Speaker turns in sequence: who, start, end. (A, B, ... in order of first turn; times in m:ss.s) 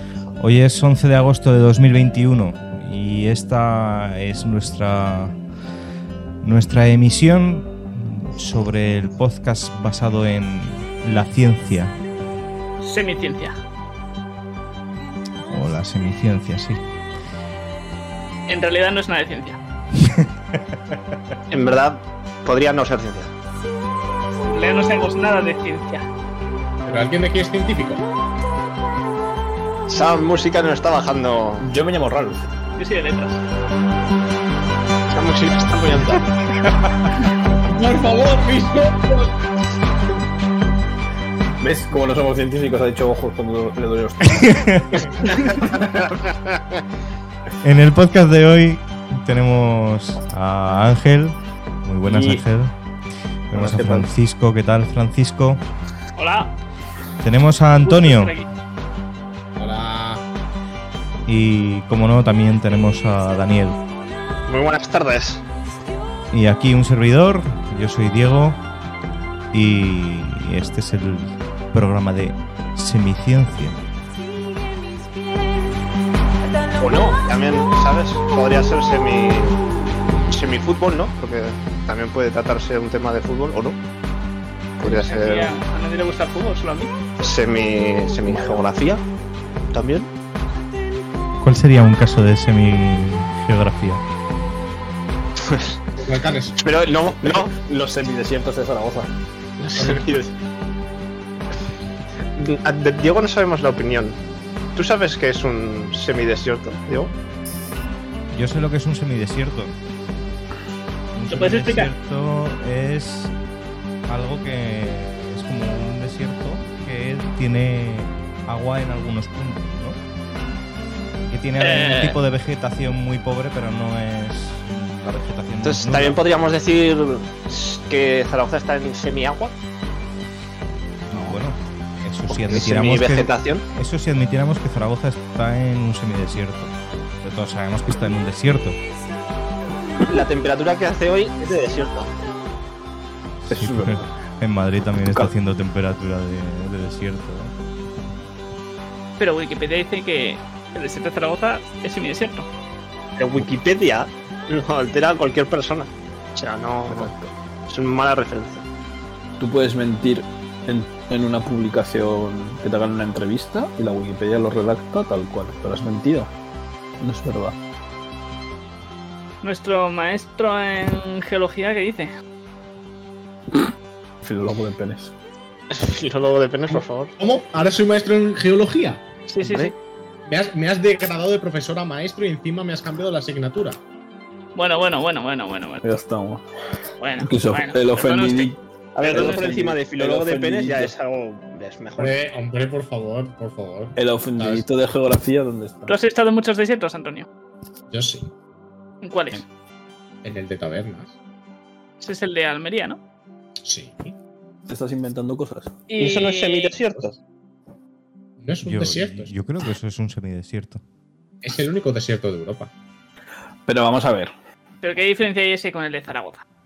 0:00.4-0:05.4 A
0:06.4-0:11.9 A
0:12.8-0:13.6 B
0:15.4-0:16.8 A
0:18.5-0:19.6 B
0:20.0-0:21.0 A
0:21.5-0:23.3 C
0:24.4-0:26.1 B
0:26.8-0:28.0 D
0:29.9-0:31.7 C
0:31.6-0:32.4 E
0:32.8-0:33.4 B
0:35.1-0:36.3 C
0:37.6-0:39.4 D
0:41.6-0:46.1 E
0:44.3-0:45.1 A
0:47.6-0:52.7 A
0:52.0-0:52.4 E
0:53.5-0:55.6 A
0:53.5-0:54.1 E
0:56.2-0:56.5 B
0:57.2-0:58.3 A
0:57.8-0:58.5 B
0:59.6-1:00.2 D
1:01.2-1:03.8 A
1:04.5-1:05.4 C
1:06.3-1:08.6 A
1:09.5-1:13.8 A
1:16.8-1:19.6 C
1:20.3-1:23.8 C
1:24.8-1:25.5 C
1:24.8-1:26.9 B
1:27.2-1:29.0 C
1:28.3-1:28.6 E
1:29.7-1:30.1 C
1:31.4-1:34.0 A
1:35.4-1:35.7 C
1:35.9-1:36.6 D
1:36.6-1:37.5 C
1:37.2-1:39.1 E
1:39.6-1:40.3 C
1:39.8-1:40.0 D
1:42.4-1:44.2 C
1:44.7-1:47.1 C
1:48.3-1:49.8 A
1:51.1-1:53.3 A
1:51.3-1:51.9 B
1:54.1-2:00.0 A
2:01.3-2:06.2 A
2:01.6-2:02.2 B
2:05.6-2:09.5 C
2:11.1-2:18.8 A
2:12.3-2:13.6 C
2:20.1-2:22.1 C
2:23.4-2:27.5 A
2:23.5-2:24.1 E
2:25.1-2:25.3 E
2:29.2-2:32.5 B
2:33.2-2:37.1 C
2:36.9-2:37.3 E
2:37.7-2:38.6 C
2:39.4-2:46.3 E
2:47.0-2:47.6 E
2:49.4-2:52.1 B
2:54.2-2:55.1 E
2:55.7-2:57.1 C
2:57.2-2:59.0 D
2:59.3-2:59.7 B
2:59.4-2:59.7 C
3:00.2-3:03.8 D
3:04.5-3:05.8 B
3:05.8-3:06.4 E
3:07.0-3:08.5 B
3:07.2-3:10.9 E
3:09.0-3:12.2 C
3:09.0-3:09.5 B
3:12.0-3:14.6 D
3:14.0-3:15.9 E
3:15.9-3:17.3 B
3:17.9-3:18.3 D
3:19.0-3:19.4 B
3:20.2-3:21.2 D
3:22.0-3:23.0 B
3:23.6-3:24.1 D
3:24.7-3:25.8 E
3:25.9-3:26.7 B
3:26.0-3:27.2 C
3:28.4-3:29.3 D
3:28.6-3:30.8 A
3:31.4-3:32.7 D
3:33.6-3:34.3 E
3:34.8-3:36.4 B